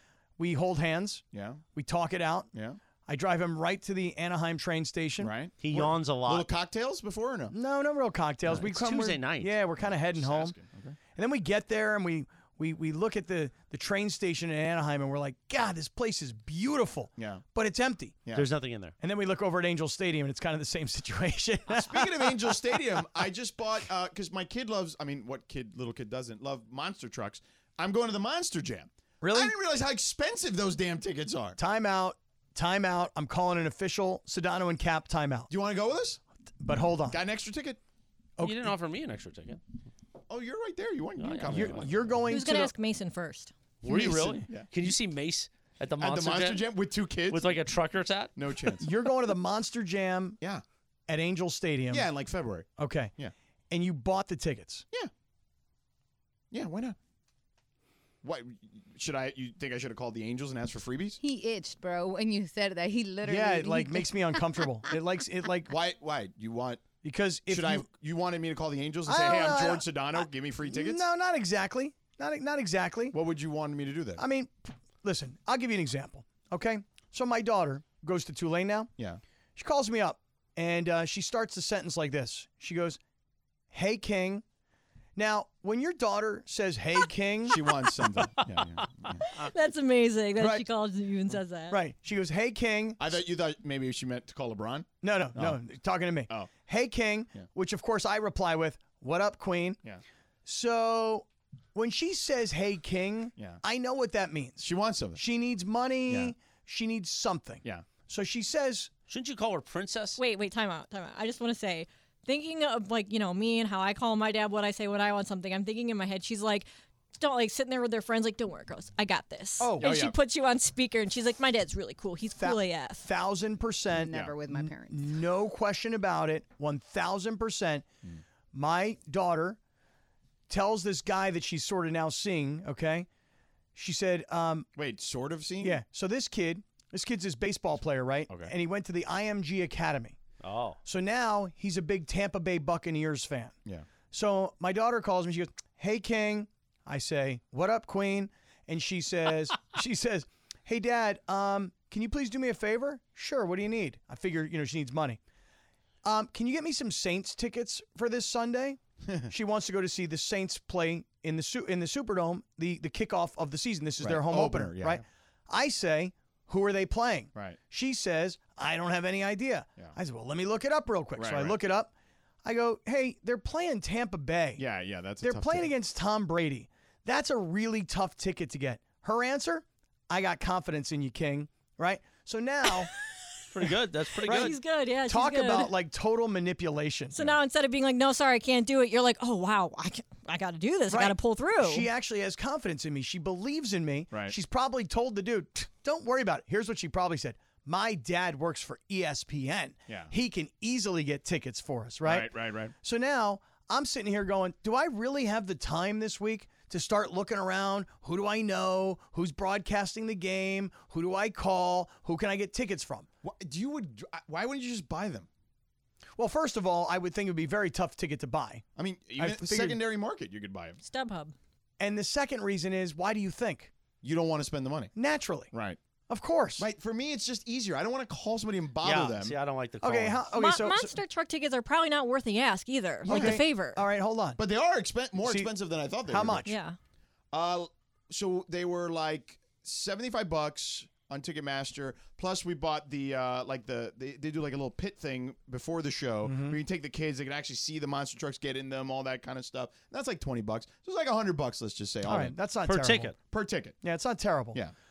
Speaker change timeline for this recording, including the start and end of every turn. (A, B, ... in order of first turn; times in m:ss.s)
0:00.4-0:01.2 A
0:01.3-0:01.6 B
0:01.7-0:02.5 A
0:03.1-0:05.9 A
0:05.2-0:05.5 B
0:05.6-0:06.5 C
0:06.2-0:07.5 B
0:07.5-0:10.6 A
0:08.5-0:09.6 C
0:09.8-0:11.0 B
0:11.1-0:18.2 A
0:17.2-0:17.4 B
0:18.3-0:18.9 C
0:19.0-0:22.8 A
0:21.8-0:31.6 B
0:29.2-0:29.5 A
0:31.6-0:35.5 A
0:35.5-0:36.2 B
0:36.6-0:37.2 A
0:37.1-0:37.8 B
0:38.4-0:38.7 A
0:38.4-0:39.6 C
0:40.3-0:42.2 B
0:41.2-0:41.9 C
0:41.5-0:42.7 A
0:42.3-0:43.5 D
0:43.8-0:46.7 C
0:43.8-0:44.7 B
0:46.0-0:47.6 B
0:47.3-0:48.3 C
0:48.4-0:48.9 B
0:48.8-0:50.4 A
0:51.1-0:52.1 A
0:51.9-0:53.3 B
0:52.8-0:53.1 A
0:53.7-0:54.8 A
0:56.5-0:57.0 B
0:58.2-1:01.2 B
1:01.2-1:05.0 E
1:03.2-1:05.7 A
1:05.7-1:06.8 B
1:07.0-1:07.9 A
1:07.5-1:11.0 B
1:09.0-1:13.2 A
1:13.1-1:14.2 B
1:14.2-1:18.9 A
1:19.6-1:23.0 A
1:23.7-1:24.4 A
1:25.2-1:27.7 A
1:27.4-1:29.4 B
1:29.3-1:31.8 D
1:31.7-1:33.0 A
1:33.0-1:35.6 B
1:35.0-1:39.8 A
1:40.4-1:48.9 A
1:44.6-1:45.2 B
1:46.1-1:46.3 B
1:49.1-1:50.2 C
1:50.2-1:56.7 D
1:57.2-2:03.0 D
1:59.6-2:00.0 A
1:59.8-2:00.1 B
2:02.4-2:07.8 A
2:03.9-2:05.1 E
2:08.5-2:09.6 A
2:10.5-2:13.1 A
2:13.7-2:14.7 A
2:14.8-2:15.8 B
2:15.6-2:20.2 A
2:20.4-2:20.8 C
2:20.8-2:23.5 A
2:24.1-2:35.2 A
2:36.0-2:51.9 A
2:39.0-2:39.3 B
2:44.0-2:45.0 B
2:51.2-2:51.6 B
2:52.4-2:54.6 A
2:54.6-2:55.7 B
2:55.2-3:02.9 A
3:03.5-3:04.5 C
3:04.2-3:04.5 A
3:04.2-3:05.7 D
3:05.1-3:07.1 A
3:07.1-3:11.9 D
3:10.9-3:33.1 A
3:22.0-3:22.7 B
3:33.2-3:35.3 B
3:36.2-3:38.6 A
3:38.8-3:40.8 B
3:39.2-3:39.8 A
3:40.8-3:41.3 D
3:41.8-3:43.7 A
3:44.0-3:44.9 B
3:44.9-3:45.5 A
3:45.5-3:45.8 B
3:46.1-3:46.6 A
3:46.6-3:49.3 B
3:48.8-3:50.2 C
3:49.8-3:51.0 A
3:50.3-3:53.8 D
3:53.0-3:53.4 B
3:53.0-3:54.4 A
3:54.4-3:56.5 B
3:55.2-3:55.5 A
3:56.0-3:56.5 A
3:56.4-3:56.8 D
3:57.3-4:12.3 B
4:06.2-4:06.6 A
4:12.0-4:13.1 A
4:12.6-4:13.1 C
4:13.3-4:13.8 B
4:13.8-4:14.6 A